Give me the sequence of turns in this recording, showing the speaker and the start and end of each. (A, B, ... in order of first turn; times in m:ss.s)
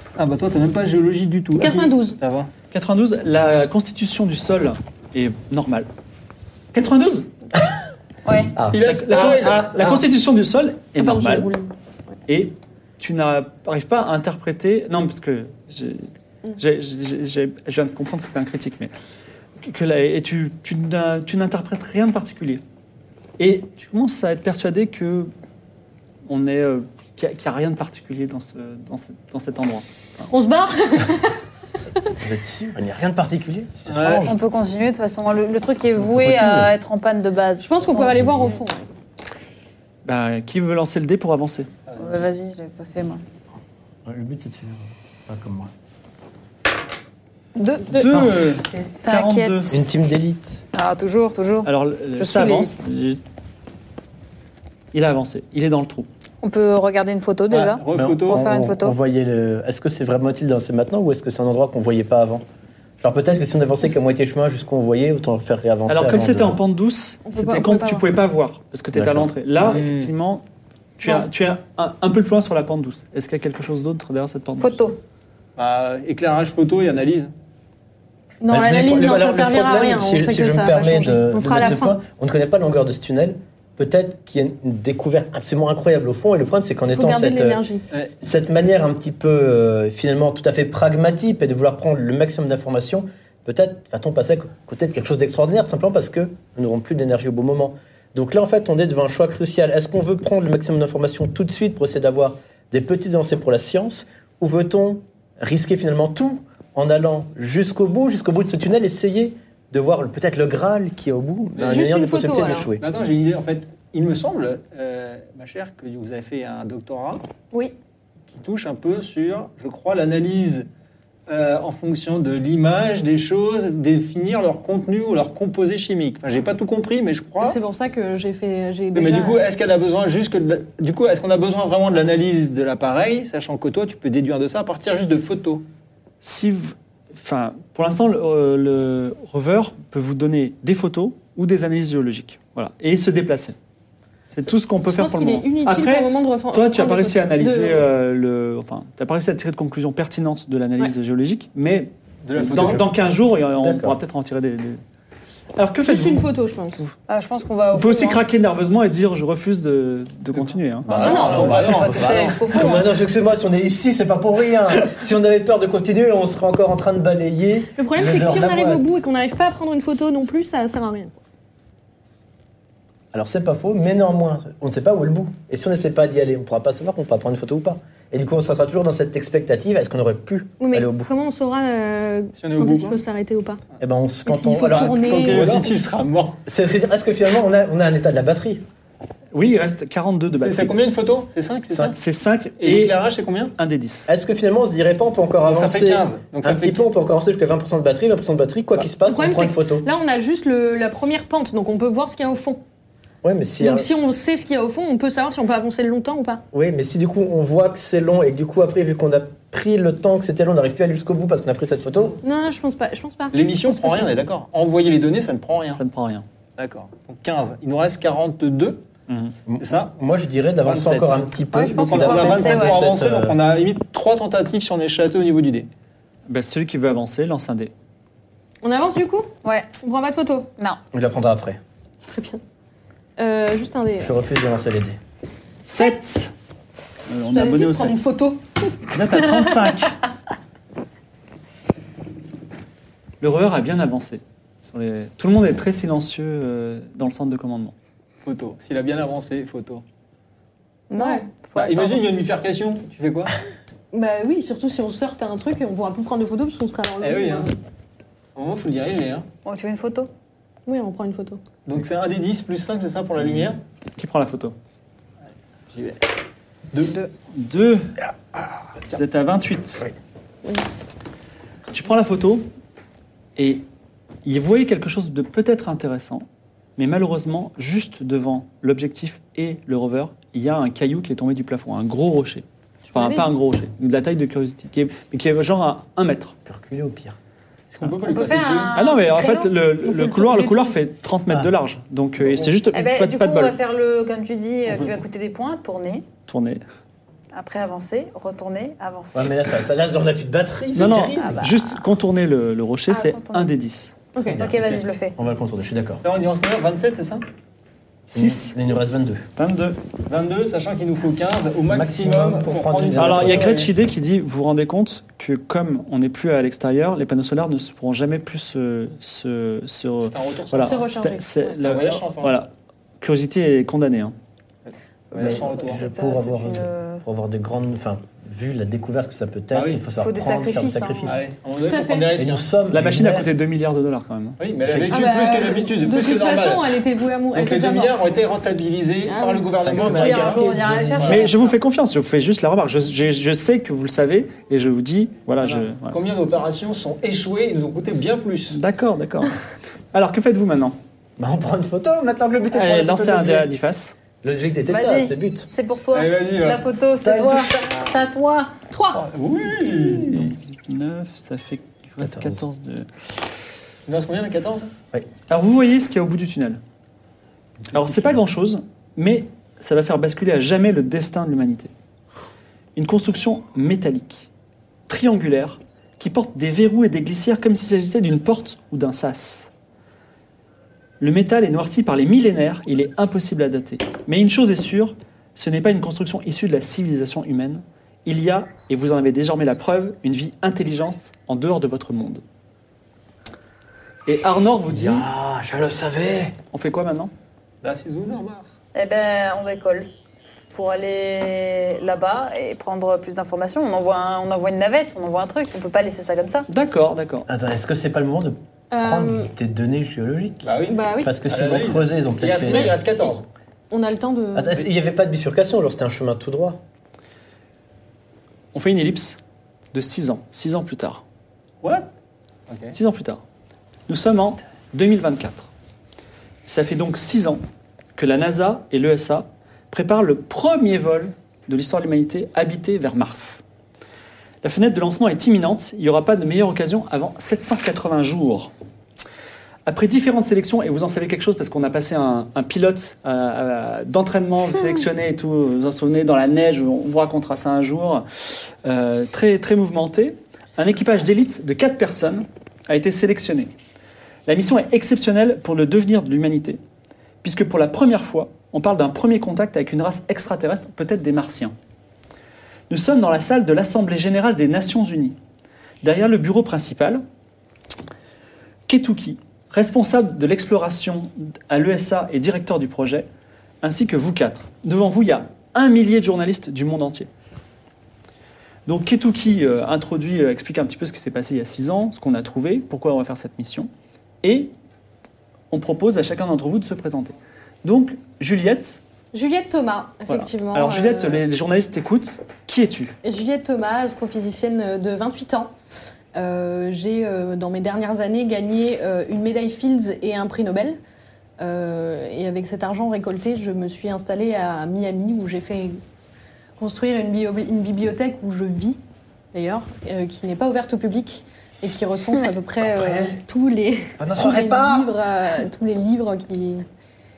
0:00.2-0:02.5 A
0:01.6-0:02.2 B
0:02.7-0:05.9 C
0:06.7-0:07.3 C
0:08.2-0:08.6 D
0:08.6-0:10.0 E
0:08.7-0:10.0 A
0:08.8-0:11.5 C
0:11.0-0:11.7 B
0:12.3-0:18.9 C
0:19.6-0:22.6 C
0:23.4-0:25.3 C
0:26.3-0:29.9 C
0:30.3-0:31.4 B
0:32.2-0:34.4 E
0:33.9-0:34.3 A
0:34.2-0:38.4 D
0:36.0-0:36.7 E
0:37.6-0:38.9 B
0:38.2-0:38.5 E
0:40.0-0:41.7 C
0:41.9-0:42.3 A
0:42.0-0:43.2 D
0:44.1-0:45.7 E
0:47.6-0:48.3 D
0:47.9-0:49.8 C
0:49.0-0:49.8 D
0:49.7-0:50.6 E
0:50.7-0:52.9 D
0:51.6-0:53.2 C
0:54.9-0:56.1 C
0:56.4-0:59.0 D
0:57.5-0:58.4 A
0:57.9-1:02.4 E
1:03.0-1:06.6 E
1:05.9-1:10.4 C
1:07.2-1:08.1 B
1:08.9-1:09.3 E
1:09.7-1:10.1 A
1:11.0-1:14.8 C
1:14.6-1:15.0 D
1:15.6-1:17.3 A
1:18.4-1:22.0 B
1:18.5-1:27.6 E
1:26.9-1:27.9 B
1:28.2-1:52.8 E
1:51.6-1:51.9 A
1:51.6-1:52.7 B
1:52.8-1:57.2 A
1:58.3-2:00.7 A
2:01.3-2:07.6 A
2:07.4-2:09.5 B
2:08.9-2:15.6 A
2:16.2-2:23.6 C
2:24.3-2:34.8 C
2:24.9-2:27.9 B
2:32.2-2:32.9 A
2:32.4-2:32.8 E
2:33.6-2:34.0 E
2:35.6-2:36.9 C
2:35.8-2:36.8 B
2:37.1-2:38.2 D
2:37.7-2:40.9 C
2:40.8-2:42.5 A
2:40.9-2:42.9 D
2:41.0-2:41.5 B
2:41.0-2:48.9 E
2:47.8-2:51.2 B
2:53.1-3:01.1 E
3:00.6-3:03.6 B
3:02.4-3:03.0 A
3:03.8-3:05.7 E
3:04.2-3:05.7 B
3:04.7-3:06.4 A
3:06.5-3:08.6 E
3:09.3-3:10.8 C
3:10.3-3:12.0 A
3:11.9-3:13.0 C
3:12.6-3:13.5 A
3:13.6-3:14.1 C
3:14.1-3:19.9 E
3:15.4-3:16.8 A
3:19.0-3:22.6 B
3:23.2-3:23.9 E
3:23.6-3:26.4 B
3:26.5-3:32.2 E
3:32.2-3:34.1 B
3:33.3-3:35.8 A
3:35.7-3:36.2 C
3:36.6-3:38.8 A
3:39.1-3:39.4 C
3:39.5-3:43.4 E
3:39.6-3:39.9 A
3:40.6-3:45.7 A
3:41.5-3:42.9 D
3:46.3-3:47.7 C
3:48.6-3:50.5 B
3:49.4-3:49.7 D
3:50.9-3:51.6 E
3:52.1-3:52.4 B
3:53.2-3:54.2 B
3:54.0-3:55.0 E
3:55.6-3:56.3 C
3:57.1-3:58.0 C
3:57.2-3:59.5 B
3:58.9-4:00.0 C
4:03.2-4:07.8 C
4:08.2-4:09.8 A
4:10.9-4:12.1 D
4:11.0-4:11.3 B
4:11.5-4:13.4 A
4:13.9-4:17.5 B
4:17.0-4:17.5 A
4:18.4-4:19.3 A
4:19.4-4:20.1 D
4:20.7-4:21.4 B
4:21.7-4:23.6 A
4:24.0-4:24.6 C
4:25.7-4:26.0 A
4:26.7-4:27.0 A
4:27.3-4:28.0 C
4:28.9-4:29.9 C
4:31.7-4:32.5 C
4:33.4-4:33.7 C
4:34.2-4:36.3 C
4:36.8-4:46.4 C
4:42.9-4:43.3 B
4:46.5-4:47.2 E
4:47.7-4:48.8 A
4:48.0-4:49.5 D
4:48.7-4:53.6 C
4:49.8-4:50.8 B
4:52.7-4:56.1 D
4:56.3-4:56.6 C
4:57.3-4:59.4 D
4:59.1-5:01.4 E
5:00.7-5:04.0 C
5:00.8-5:01.9 D
5:02.9-5:03.5 D
5:04.2-5:04.5 B
5:04.3-5:06.0 E
5:04.4-5:05.2 D
5:06.0-5:07.2 A
5:08.1-5:09.8 C
5:08.1-5:09.3 E
5:10.1-5:13.7 A
5:11.6-5:13.7 E
5:13.0-5:24.2 C
5:20.0-5:20.9 A
5:20.6-5:21.6 B
5:21.6-5:22.4 A
5:25.1-5:27.0 D
5:25.1-5:25.8 A
5:25.2-5:31.2 E
5:29.5-5:29.9 A
5:29.9-5:31.2 D
5:31.1-5:32.5 A
5:31.7-5:32.2 B
5:32.2-5:33.3 E
5:32.7-5:34.4 C
5:34.4-5:36.8 A
5:34.6-5:35.1 E
5:34.9-5:38.0 B
5:37.3-5:41.2 A
5:39.1-5:40.6 B
5:39.6-5:41.2 E
5:39.8-5:41.5 D
5:41.0-5:46.0 C
5:45.4-5:48.6 A
5:48.5-5:49.4 C
5:49.9-5:50.8 C
5:51.2-5:53.5 E
5:52.5-5:54.0 C
5:54.2-5:55.5 E
5:54.7-5:58.6 D
5:55.9-5:56.6 A
5:57.0-5:57.7 E
5:58.7-5:59.0 B
5:58.9-6:00.2 A
6:00.1-6:02.9 C
6:02.0-6:02.4 E
6:03.9-6:04.7 A
6:05.3-6:06.6 C
6:07.7-6:11.7 C
6:12.8-6:14.3 C
6:14.9-6:19.5 C
6:21.0-6:32.2 C
6:34.1-6:35.1 C
6:34.7-6:36.4 E
6:36.5-6:37.1 C
6:37.6-6:38.5 A
6:38.8-6:39.9 D
6:40.5-6:46.5 D
6:46.5-6:47.3 C
6:47.3-6:52.8 E
6:48.7-6:49.3 B
6:50.4-6:53.3 A
6:50.7-6:51.2 B
6:53.7-6:54.6 B
6:54.4-6:56.6 E
6:58.5-6:59.2 C
6:59.7-7:01.0 C
7:01.6-7:01.9 A
7:02.5-7:02.8 A
7:02.7-7:03.2 C
7:03.9-7:05.5 C
7:06.5-7:07.4 C
7:08.0-7:13.4 C
7:14.4-7:18.5 C
7:19.7-7:33.5 C
7:34.3-7:36.6 C
7:37.2-7:41.6 C
7:42.7-7:45.2 C
7:45.8-7:47.0 C
7:48.7-7:53.1 C
7:53.6-7:57.1 C
7:58.7-8:03.7 C
8:04.2-8:04.5 C
8:05.5-8:08.8 C
8:09.1-8:11.2 B
8:10.1-8:13.0 C
8:13.0-8:15.5 B
8:16.2-8:20.8 B
8:21.4-8:25.8 B
8:26.6-8:28.8 B
8:29.3-8:36.6 B
8:32.6-8:33.2 E
8:34.0-8:34.9 E